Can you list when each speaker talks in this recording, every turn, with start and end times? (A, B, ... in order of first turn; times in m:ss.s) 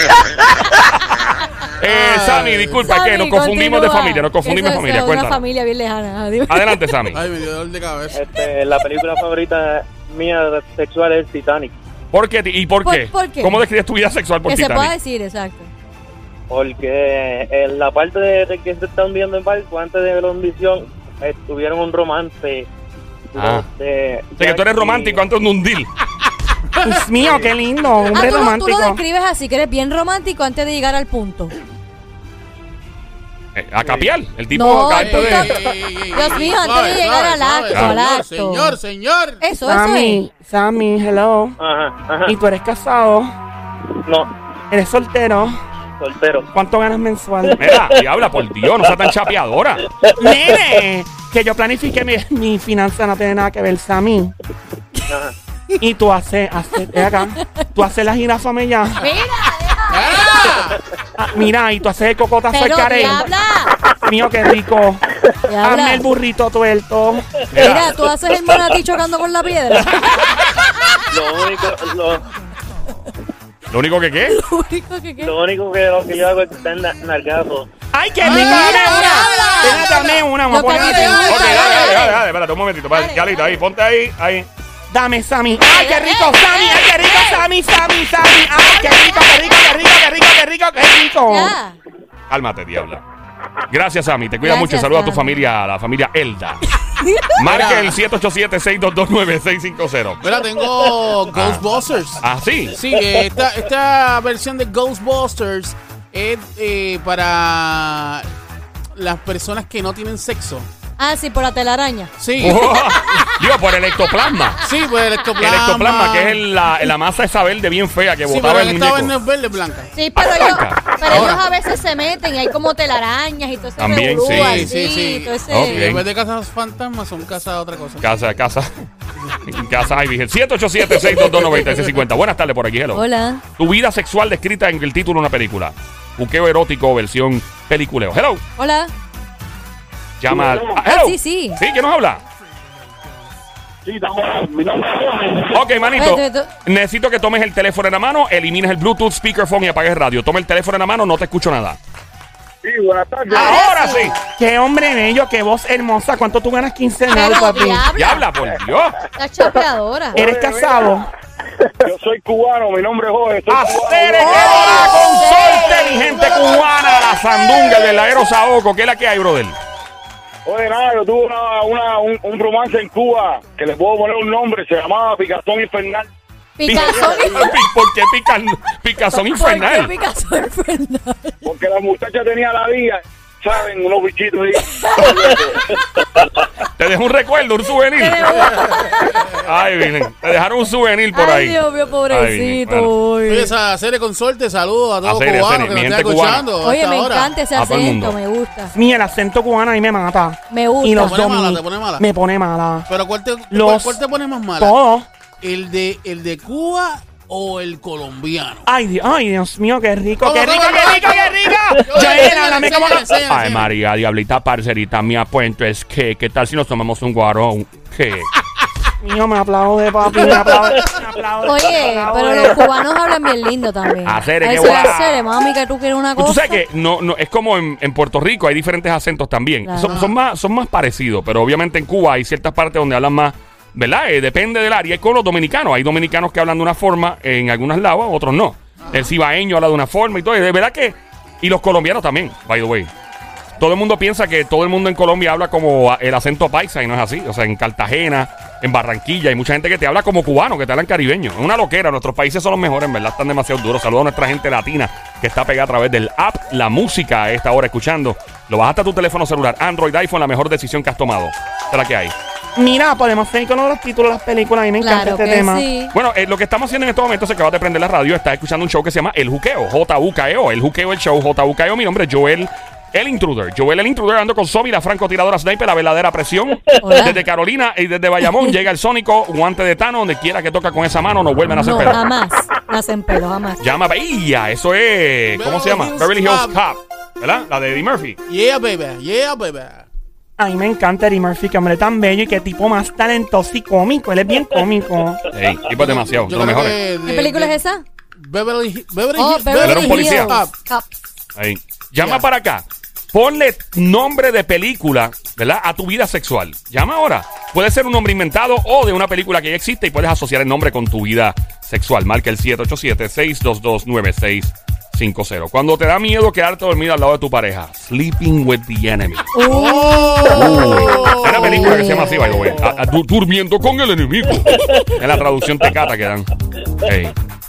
0:01.8-0:05.4 A
0:01.8-0:02.9 B
0:02.8-0:06.9 C
0:06.5-0:07.2 A
0:07.1-0:08.2 B
0:08.1-0:11.7 D
0:12.1-0:14.9 A
0:12.8-0:13.6 C
0:14.4-0:15.7 C
0:16.5-0:22.7 D
0:23.3-0:25.2 D
0:23.4-0:23.7 A
0:24.3-0:25.9 A
0:26.8-0:29.0 E
0:28.1-0:31.5 C
0:33.6-0:35.6 A
0:33.8-0:34.1 D
0:34.5-0:38.8 C
0:34.9-0:39.4 B
0:37.7-0:38.0 A
0:39.4-0:40.2 C
0:39.6-0:41.6 E
0:41.6-0:42.3 D
0:42.2-0:43.3 E
0:44.0-0:44.3 D
0:44.7-0:45.5 E
0:46.0-0:46.5 D
0:46.5-0:47.6 E
0:47.6-0:49.9 A
0:47.7-0:48.0 D
0:50.2-0:54.3 E
0:55.1-0:55.3 D
0:55.8-0:59.0 E
0:57.0-0:57.2 C
0:59.0-1:00.6 C
0:59.9-1:00.8 B
1:01.2-1:03.2 E
1:02.5-1:03.7 C
1:04.0-1:05.0 E
1:05.5-1:06.1 C
1:05.6-1:07.3 E
1:07.5-1:07.9 A
1:07.6-1:10.4 C
1:11.1-1:12.2 D
1:13.7-1:14.4 A
1:14.2-1:15.3 C
1:15.2-1:17.7 D
1:17.9-1:21.9 E
1:18.2-1:22.2 C
1:21.1-1:24.5 A
1:22.9-1:23.6 C
1:24.9-1:31.5 E
1:25.6-1:27.5 C
1:31.3-1:31.8 C
1:32.3-1:33.0 A
1:33.7-1:36.6 A
1:34.4-1:35.4 C
1:36.9-1:37.4 C
1:37.3-1:40.3 A
1:37.5-1:38.0 B
1:40.2-1:48.3 B
1:41.3-1:41.6 A
1:42.2-1:42.8 A
1:48.9-1:50.7 B
1:51.0-1:52.7 C
1:52.2-1:52.6 B
1:52.4-1:54.6 A
1:54.6-1:56.5 B
1:55.4-1:59.1 A
1:58.2-1:59.9 B
1:59.9-2:05.9 C
2:00.2-2:01.3 A
2:01.1-2:01.4 B
2:03.8-2:04.7 A
2:04.2-2:08.1 B
2:05.5-2:06.0 A
2:08.0-2:08.7 A
2:09.4-2:13.0 A
2:12.9-2:13.4 C
2:13.6-2:18.4 A
2:18.6-2:18.9 C
2:20.2-2:22.2 A
2:20.7-2:21.6 C
2:23.9-2:25.5 F
2:25.5-2:31.8 A
2:25.8-2:26.5 C
2:32.6-2:33.3 F
2:33.3-2:33.6 E
2:33.3-2:34.1 C
2:33.4-2:34.2 A
2:34.2-2:37.8 E
2:37.1-2:38.2 C
2:38.0-2:39.0 A
2:39.1-2:40.2 C
2:40.1-2:41.1 E
2:40.2-2:40.9 F
2:41.8-2:44.9 F
2:43.5-2:46.3 E
2:43.5-2:44.8 B
2:44.2-2:46.2 C
2:44.7-2:49.6 A
2:50.4-2:56.1 F
2:56.6-2:57.5 C
2:56.6-2:59.9 A
2:59.1-3:01.4 C
3:01.4-3:05.6 F
3:05.2-3:05.6 B
3:06.8-3:08.2 A
3:08.0-3:09.3 C
3:09.4-3:12.9 A
3:11.1-3:13.5 C
3:13.3-3:17.4 B
3:15.0-3:16.5 A
3:16.6-3:18.7 C
3:17.5-3:18.2 A
3:18.7-3:22.9 E
3:20.5-3:21.1 C
3:20.9-3:22.0 B
3:22.9-3:24.8 B
3:23.5-3:24.0 E
3:24.6-3:25.1 E
3:25.4-3:28.6 B
3:28.6-3:33.0 E
3:30.2-3:33.7 B
3:33.2-3:38.3 A
3:39.0-3:42.6 E
3:41.4-3:46.6 C
3:44.0-3:45.2 A
3:46.2-4:02.9 A
3:49.6-3:50.0 C
3:49.8-3:50.1 B
4:03.6-4:22.1 A
4:22.6-4:25.6 E
4:24.8-4:25.9 C
4:25.9-4:42.0 A
4:36.8-4:37.2 C
4:41.5-4:43.6 C
4:43.6-4:48.2 A
4:45.3-4:46.6 B
4:48.3-4:49.8 B
4:50.4-4:55.2 E
4:55.3-4:56.7 A
4:55.7-4:57.6 B
4:57.0-4:57.8 C
4:58.2-5:00.5 B
4:59.2-5:00.9 C
4:59.6-5:00.4 A
5:01.4-5:19.3 A
5:02.0-5:02.2 B
5:19.3-5:22.8 B
5:19.4-5:21.0 C
5:20.3-5:26.3 A
5:26.8-5:27.1 A